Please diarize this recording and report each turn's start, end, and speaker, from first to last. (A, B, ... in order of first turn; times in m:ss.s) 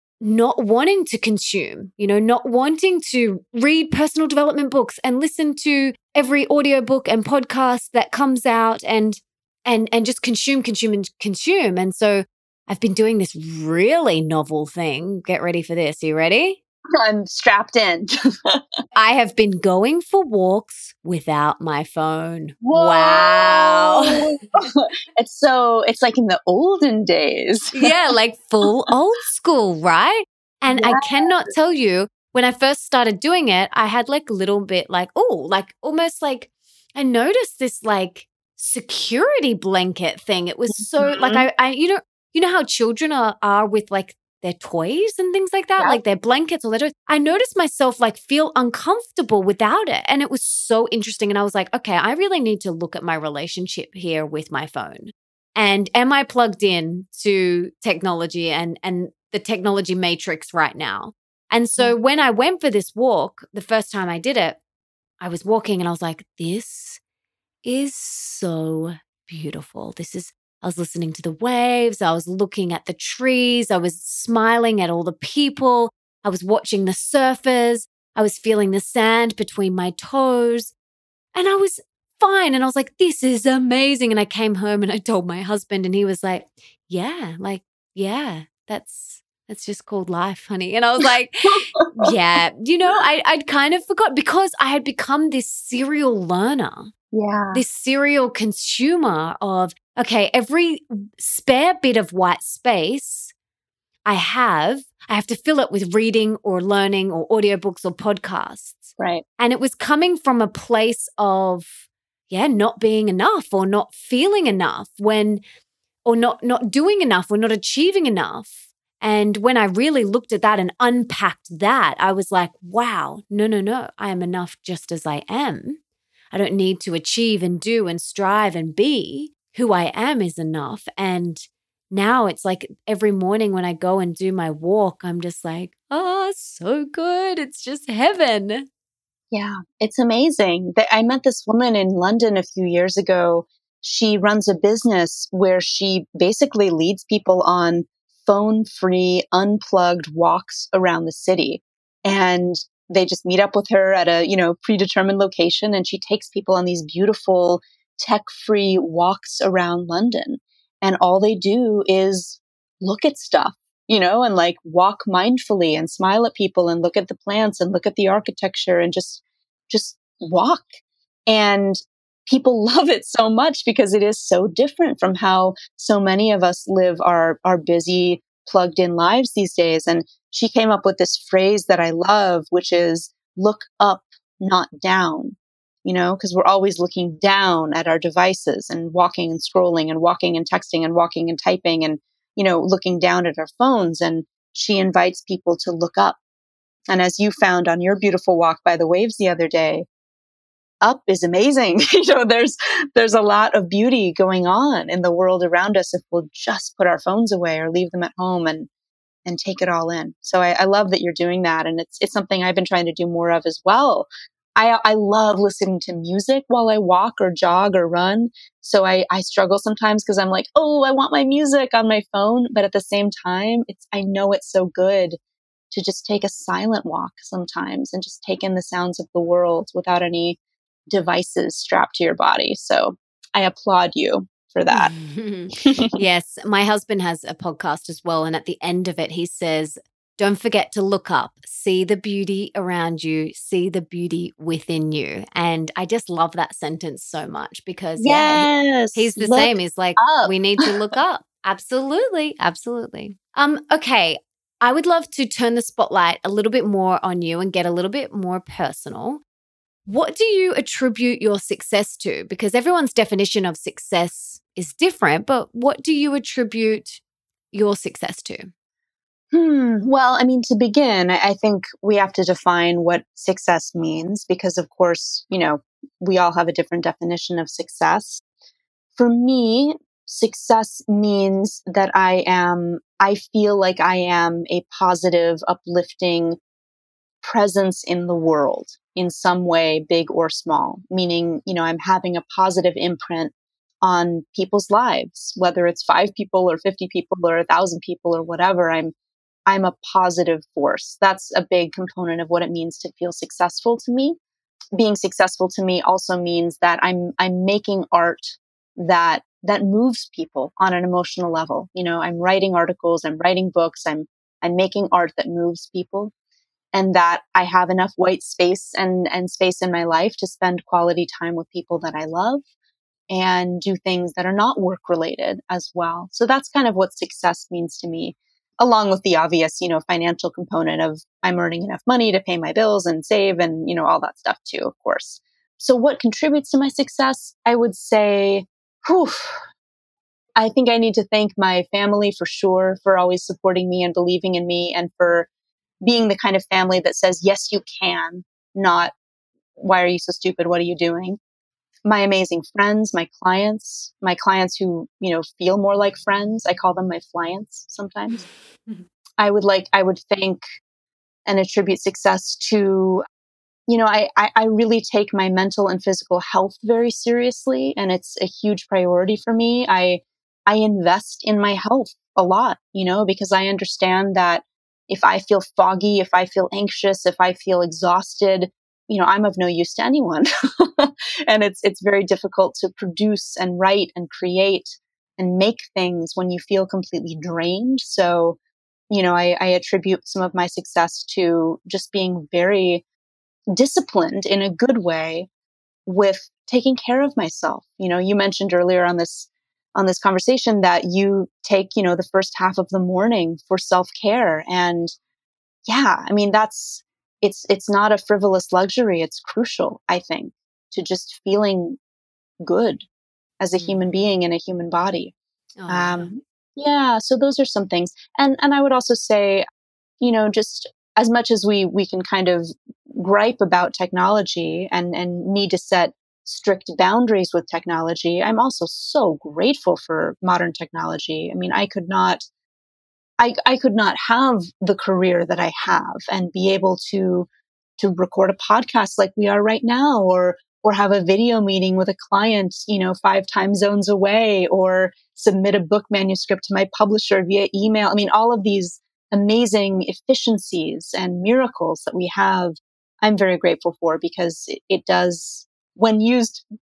0:00.2-0:16.6 A
0:17.0-0:18.6 B
0:19.0-0:24.3 A
0:22.6-0:27.9 B
0:27.7-1:04.6 A
0:30.7-0:31.5 B
0:40.7-0:41.4 B
1:05.2-1:07.0 A
1:07.6-1:20.7 A
1:21.3-1:36.9 A
1:31.8-1:32.1 B
1:37.1-1:37.6 B
1:37.5-1:43.3 A
1:44.0-1:51.7 A
1:49.0-1:49.2 B
1:52.3-1:55.4 A
1:56.0-2:05.8 A
2:06.3-2:18.7 A
2:19.3-2:50.7 B
2:51.3-3:16.2 B
3:16.9-3:19.8 B
3:20.8-3:28.7 B
3:29.2-3:45.2 B
3:45.7-3:50.4 B
3:50.9-3:54.9 B
3:54.7-4:19.2 A
3:55.6-3:56.0 B
4:08.0-4:10.7 B
4:19.8-4:27.0 A
4:27.5-4:28.5 A
4:29.3-4:38.2 B
4:39.0-4:46.4 B
4:47.2-4:58.9 B
4:59.5-5:04.2 B
5:04.8-5:16.1 B
5:16.7-5:22.4 B
5:23.1-5:39.4 B
5:40.4-5:45.3 B
5:45.8-5:48.9 B
5:49.6-5:51.2 B
5:51.8-5:58.2 B
5:58.2-5:58.8 A
5:59.2-6:00.4 B
6:01.2-6:03.0 B
6:03.7-6:28.4 B
6:28.9-6:32.8 B
6:33.5-6:35.3 B
6:35.8-6:44.9 B
6:45.6-6:51.8 B
6:52.4-6:52.8 B
6:53.4-6:55.1 B
6:53.6-6:53.9 A
6:55.6-6:56.1 A
6:55.7-6:59.4 B
7:00.0-7:12.2 B
7:13.2-7:36.4 B